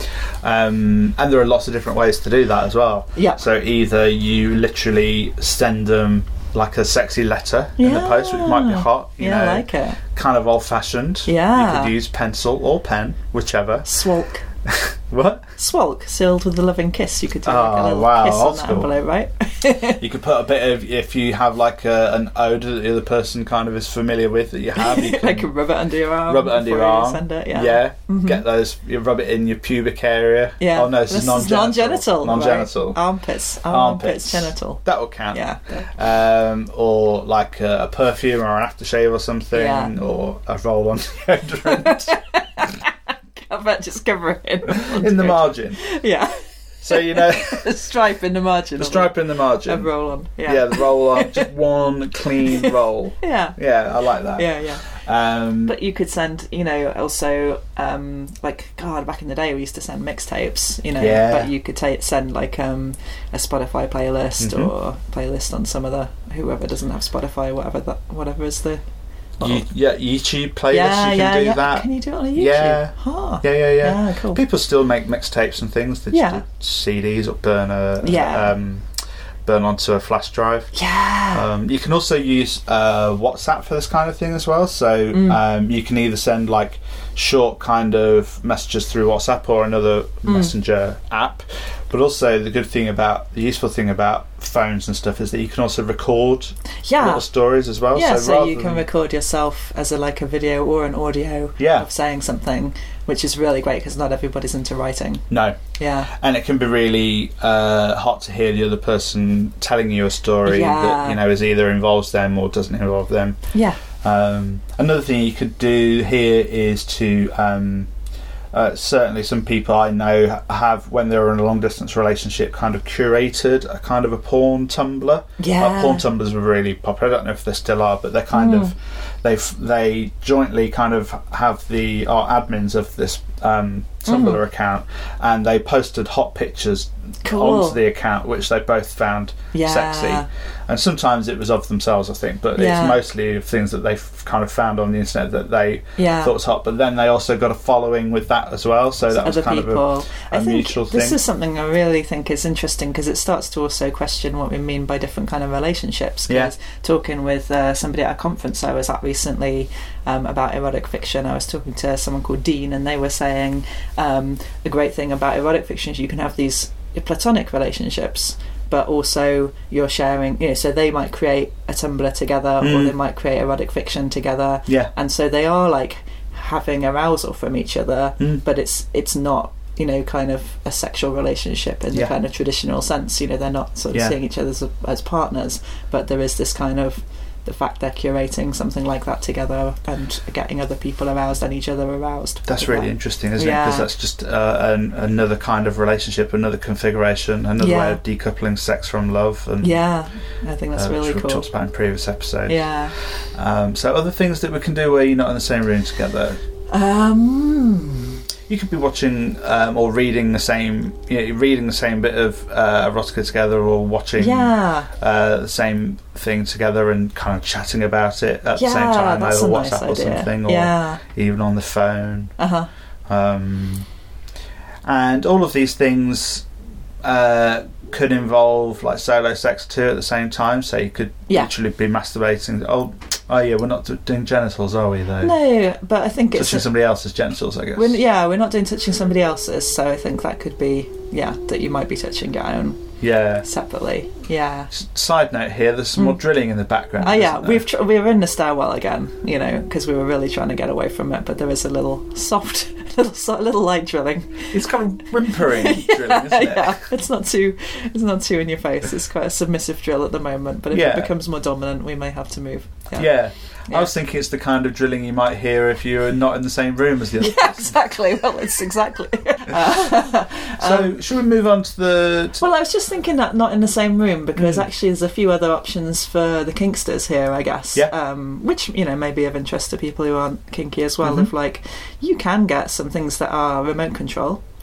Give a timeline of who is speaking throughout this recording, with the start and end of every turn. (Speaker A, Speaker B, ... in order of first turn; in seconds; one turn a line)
Speaker A: 0.4-14.0
Speaker B: 3.2-3.4
Speaker B: 7.8-10.0
Speaker B: 11.3-11.9
Speaker B: 13.8-14.4
Speaker A: 14.7-15.4
Speaker B: 15.6-20.0
Speaker A: 17.4-18.9
Speaker A: 20.0-25.5
Speaker B: 24.8-28.4
Speaker A: 26.3-33.0
Speaker B: 30.6-35.9
Speaker A: 33.7-42.2
Speaker B: 39.5-39.9
Speaker B: 41.6-51.5
Speaker A: 44.7-45.8
Speaker A: 46.8-47.7
Speaker A: 48.8-49.9
Speaker A: 50.5-55.8
Speaker B: 52.4-53.6
Speaker B: 54.4-54.8
Speaker B: 55.7-68.8
Speaker A: 61.0-61.5
Speaker A: 64.4-64.7
Speaker A: 69.4-78.9
Speaker B: 70.7-74.4
Speaker B: 76.1-76.4
Speaker B: 78.0-78.5
Speaker A: 79.5-80.7
Speaker B: 80.7-81.5
Speaker A: 81.3-98.8
Speaker B: 85.1-85.4
Speaker B: 96.8-97.3
Speaker B: 97.9-106.1
Speaker A: 101.6-101.9
Speaker A: 105.3-113.4
Speaker B: 110.4-111.2
Speaker B: 113.5-113.8
Speaker A: 114.0-117.9
Speaker A: 118.5-151.2
Speaker B: 125.4-126.0
Speaker B: 128.3-128.7
Speaker B: 134.1-134.4
Speaker B: 137.2-137.8
Speaker B: 139.5-140.3
Speaker B: 142.6-143.1
Speaker B: 146.0-146.3
Speaker B: 149.2-193.9
Speaker A: 156.3-156.5
Speaker A: 172.6-172.9
Speaker A: 192.5-199.8
Speaker B: 197.6-198.0
Speaker B: 199.6-201.4
Speaker A: 200.8-206.4
Speaker B: 202.5-202.9
Speaker B: 206.7-208.2
Speaker A: 208.5-222.3
Speaker B: 214.2-214.9
Speaker B: 218.6-221.0
Speaker B: 222.4-222.7
Speaker A: 223.1-223.9
Speaker A: 224.8-226.4
Speaker A: 227.0-235.3
Speaker B: 235.2-236.7
Speaker A: 236.3-238.0
Speaker B: 237.8-242.8
Speaker A: 243.0-243.5
Speaker B: 243.4-244.7
Speaker A: 244.7-247.6
Speaker B: 247.0-254.6
Speaker A: 254.5-256.9
Speaker B: 255.3-263.1
Speaker A: 260.7-261.1
Speaker A: 263.0-267.8
Speaker B: 267.2-270.9
Speaker A: 269.5-269.9
Speaker A: 270.5-272.4
Speaker B: 272.4-284.4
Speaker A: 274.4-274.6
Speaker A: 281.0-281.3